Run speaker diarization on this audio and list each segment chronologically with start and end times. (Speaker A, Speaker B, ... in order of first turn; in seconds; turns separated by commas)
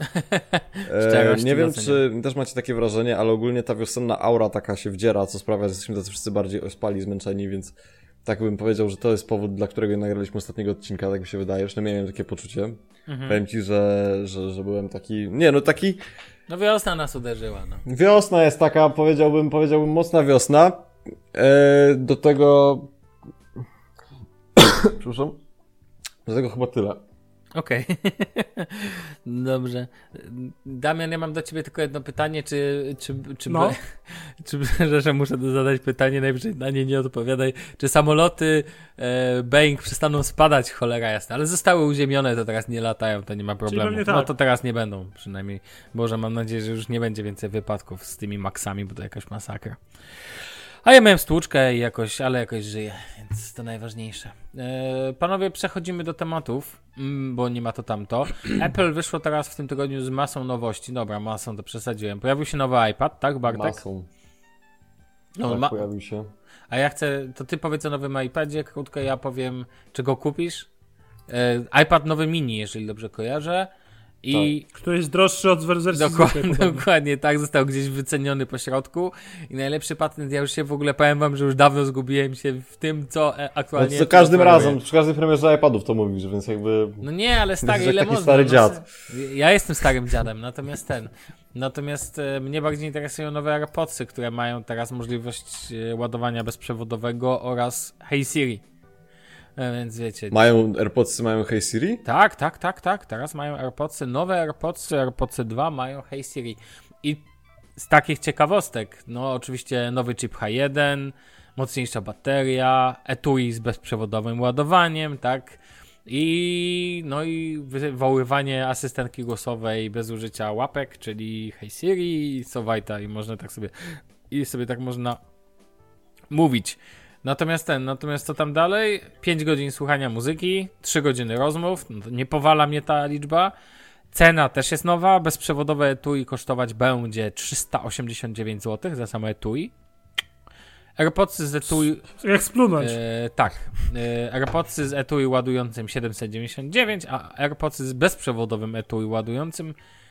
Speaker A: 0.1-2.0, Speaker B: 0.8-7.7, Speaker B: 8.2-16.0, Speaker A: 13.1-13.4, Speaker A: 16.5-17.8, Speaker B: 17.8-22.9, Speaker B: 24.6-25.4, Speaker B: 26.2-27.0, Speaker A: 27.5-49.8, Speaker C: 33.5-33.8, Speaker C: 43.7-44.3, Speaker A: 50.8-63.8, Speaker B: 63.5-64.1, Speaker A: 65.3-65.8, Speaker B: 65.4-66.3, Speaker A: 66.7-70.7, Speaker A: 71.3-73.7, Speaker A: 74.2-74.6, Speaker C: 74.7-76.8, Speaker A: 75.9-84.8, Speaker B: 83.8-87.0, Speaker A: 87.0-98.6, Speaker B: 87.6-88.8, Speaker A: 99.6-100.4, Speaker B: 100.3-102.0, Speaker A: 102.0-107.2, Speaker A: 107.8-125.2, Speaker A: 126.3-133.5, Speaker A: 134.1-139.7, Speaker A: 141.0-142.1, Speaker C: 142.2-143.0, Speaker A: 142.8-149.7